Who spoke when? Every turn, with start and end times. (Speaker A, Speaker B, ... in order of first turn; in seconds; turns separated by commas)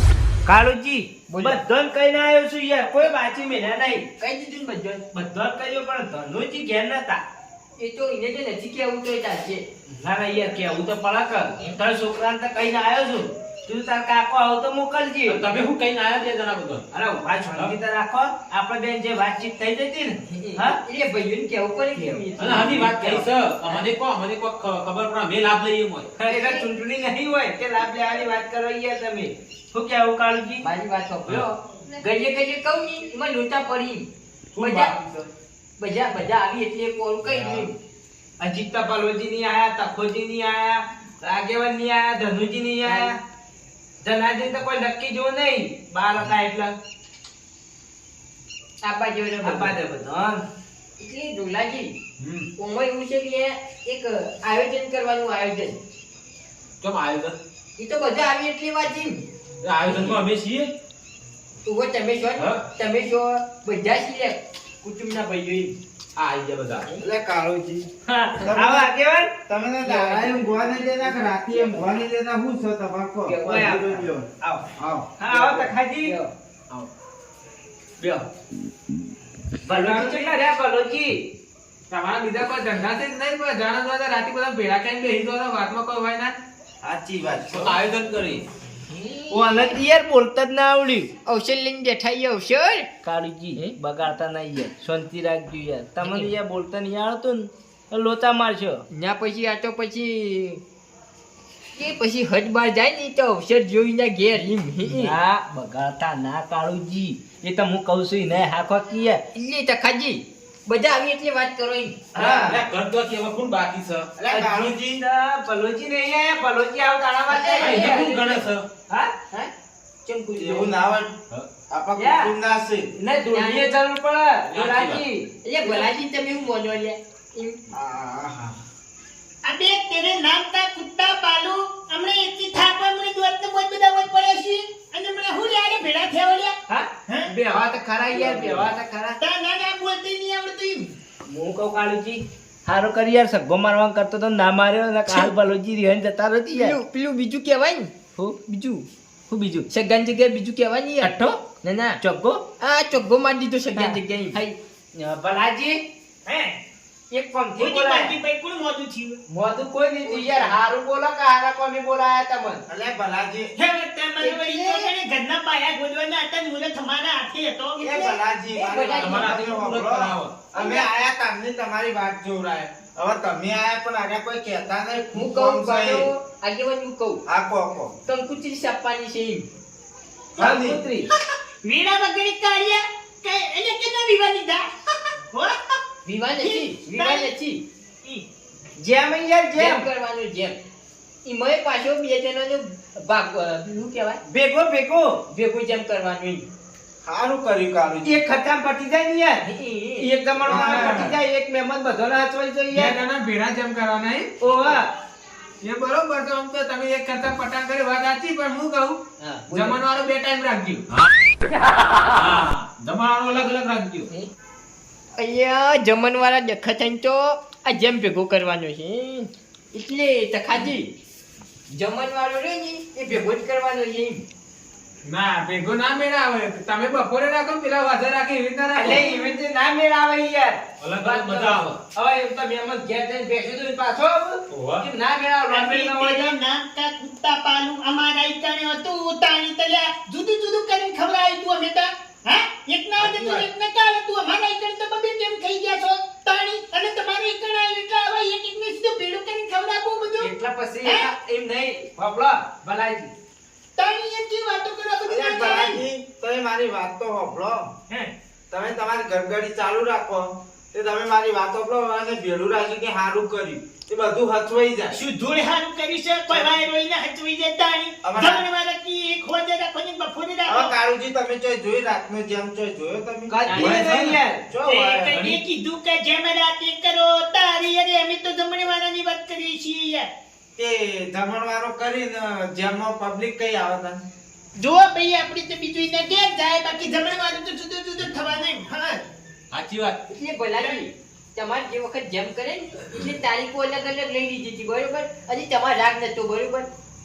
Speaker A: 0.5-4.0, Speaker B: 1.3-1.6, Speaker B: 4.2-5.0, Speaker A: 5.1-7.2, Speaker B: 7.8-9.6, Speaker A: 9.9-15.4, Speaker C: 15.3-16.8, Speaker A: 16.9-20.8, Speaker B: 20.3-23.8, Speaker C: 22.4-26.1, Speaker A: 26.2-30.6, Speaker B: 26.2-26.6, Speaker B: 30.6-35.1, Speaker C: 34.6-34.9, Speaker B: 35.8-37.7, Speaker A: 38.4-43.1, Speaker B: 42.8-43.1, Speaker A: 44.0-46.7, Speaker B: 48.8-49.7, Speaker A: 49.4-50.4, Speaker B: 51.0-51.9, Speaker B: 52.6-55.8, Speaker C: 56.8-57.4, Speaker B: 57.8-59.2, Speaker C: 59.6-60.7, Speaker B: 61.6-65.7, Speaker C: 66.2-66.8, Speaker D: 67.0-67.9, Speaker A: 68.0-69.3, Speaker D: 68.4-68.9, Speaker D: 69.5-75.1, Speaker B: 69.8-71.9, Speaker B: 73.2-74.1, Speaker A: 73.4-73.8, Speaker A: 75.2-76.1, Speaker B: 75.3-76.3, Speaker A: 79.7-81.2, Speaker E: 79.8-80.2, Speaker E: 81.9-86.3, Speaker D: 86.8-87.8, Speaker C: 87.7-88.4, Speaker B: 89.0-89.8, Speaker A: 89.3-91.1, Speaker B: 91.2-92.9, Speaker A: 93.0-98.8, Speaker B: 96.0-96.3, Speaker B: 98.9-100.6, Speaker B: 101.8-105.1, Speaker A: 104.9-109.2, Speaker B: 109.3-112.3, Speaker A: 112.1-112.6, Speaker C: 112.5-114.1, Speaker D: 114.2-115.0, Speaker A: 114.3-118.1, Speaker B: 117.3-118.5, Speaker C: 117.7-118.6, Speaker A: 118.9-119.1, Speaker A: 120.1-120.7, Speaker D: 120.3-121.2, Speaker D: 121.7-122.9, Speaker A: 122.0-122.3, Speaker A: 123.0-125.9, Speaker B: 123.3-123.7, Speaker C: 124.5-125.0, Speaker B: 125.4-127.6, Speaker D: 127.7-128.6, Speaker F: 129.4-136.5, Speaker A: 136.7-139.2, Speaker B: 137.5-138.7, Speaker F: 139.2-140.9, Speaker A: 141.3-146.8, Speaker B: 145.1-145.3, Speaker B: 146.5-147.9, Speaker A: 148.2-148.4, Speaker B: 148.4-148.8, Speaker A: 149.3-149.7, Speaker B: 149.7-152.0, Speaker A: 151.0-151.3, Speaker A: 152.0-152.4, Speaker B: 152.6-154.5, Speaker A: 154.9-155.8, Speaker F: 156.2-156.6, Speaker A: 157.1-158.1, Speaker F: 157.6-159.2, Speaker A: 159.3-162.6, Speaker B: 160.0-160.6, Speaker D: 162.7-163.5, Speaker F: 163.6-168.2, Speaker B: 164.2-164.9, Speaker D: 167.8-176.1, Speaker B: 168.5-169.5, Speaker C: 169.0-170.3, Speaker B: 175.1-177.2, Speaker D: 177.2-177.9, Speaker B: 178.1-179.4, Speaker D: 180.3-180.8, Speaker A: 180.4-181.1, Speaker F: 181.6-185.8, Speaker B: 186.0-187.6, Speaker F: 186.4-187.3, Speaker A: 188.8-189.9, Speaker B: 189.6-190.6, Speaker B: 191.2-194.2, Speaker A: 194.2-195.2, Speaker B: 195.3-196.4, Speaker D: 197.0-198.2, Speaker A: 198.0-199.4, Speaker B: 199.4-200.7, Speaker A: 200.0-202.9, Speaker E: 200.4-201.2, Speaker E: 202.7-204.3, Speaker A: 204.4-204.9, Speaker E: 205.6-209.0, Speaker A: 209.2-209.7, Speaker E: 209.5-210.8, Speaker C: 212.2-214.0, Speaker B: 215.2-220.9, Speaker B: 221.7-224.2, Speaker E: 225.0-229.0, Speaker A: 228.7-230.6, Speaker C: 230.8-231.7, Speaker B: 231.0-231.7, Speaker A: 231.9-236.3, Speaker C: 234.5-234.8, Speaker F: 235.5-250.3, Speaker A: 243.0-243.3, Speaker A: 250.2-253.1, Speaker F: 250.8-251.1, Speaker F: 253.8-255.8, Speaker D: 255.1-257.7, Speaker D: 258.5-265.0, Speaker F: 264.9-270.7, Speaker D: 268.0-268.4, Speaker D: 270.5-273.9, Speaker A: 273.3-274.4, Speaker D: 274.5-275.2, Speaker F: 274.6-280.1, Speaker D: 280.6-284.0, Speaker F: 284.6-289.0, Speaker C: 289.5-289.9, Speaker B: 290.1-296.7